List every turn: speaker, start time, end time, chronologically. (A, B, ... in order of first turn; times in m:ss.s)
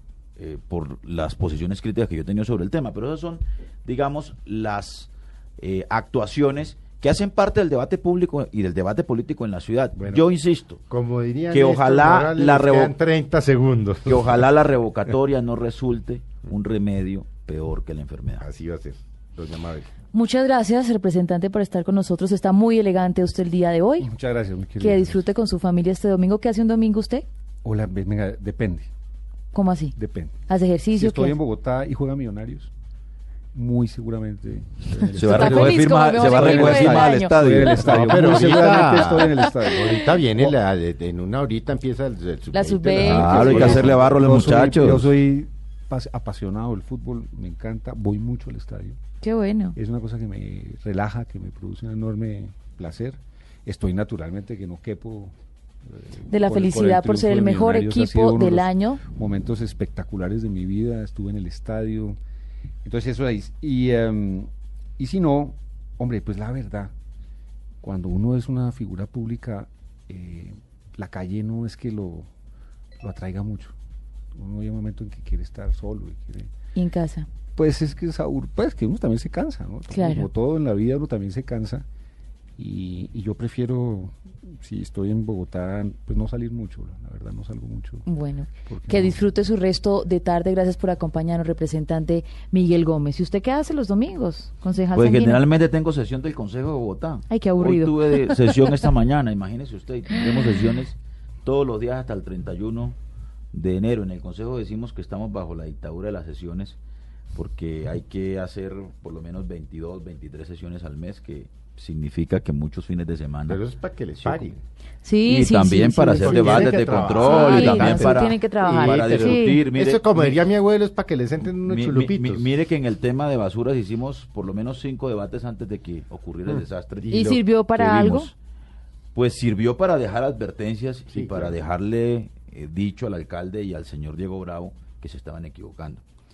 0:00.4-0:10.8 A
0:09.9-0:10.2 B
0:10.9-0:14.4 B
0:11.5-0:13.0 A
0:14.1-0:18.4 A
0:18.4-0:19.9 B
0:20.1-0:24.1 C
0:24.0-0:25.2 D
0:24.8-0:27.2 C
0:27.6-0:28.9 D
0:29.5-0:29.9 C
0:29.9-0:30.4 D
0:30.5-0:31.4 C
0:30.9-0:32.7 D
0:33.5-0:40.5 D
0:35.1-0:39.1 A
0:35.2-0:38.0 C
0:38.0-0:44.0 B
0:39.2-0:39.5 C
0:42.5-0:44.0 C
0:42.8-0:49.0 D
0:42.9-0:45.1 A
0:49.2-0:49.8 C
0:49.8-0:55.3 D
0:55.8-1:02.2 D
0:56.3-0:59.0 C
1:02.8-1:06.9 D
1:07.8-1:12.3 D
1:13.0-1:13.7 D
1:14.3-1:16.5 D
1:16.7-1:17.3 C
1:17.5-1:21.8 D
1:19.9-1:20.3 C
1:22.6-1:28.0 D
1:28.0-1:35.4 C
1:28.6-1:29.2 D
1:34.9-1:43.0 A
1:37.3-1:38.6 C
1:43.5-1:46.8 A
1:47.3-1:53.6 A
1:53.5-1:54.6 B
1:54.2-1:54.5 A
1:55.0-1:59.6 C
1:55.2-2:00.5 A
1:56.2-2:02.5 B
2:01.6-2:08.3 A
2:07.1-2:08.3 C
2:09.1-2:16.0 A
2:11.1-2:11.6 B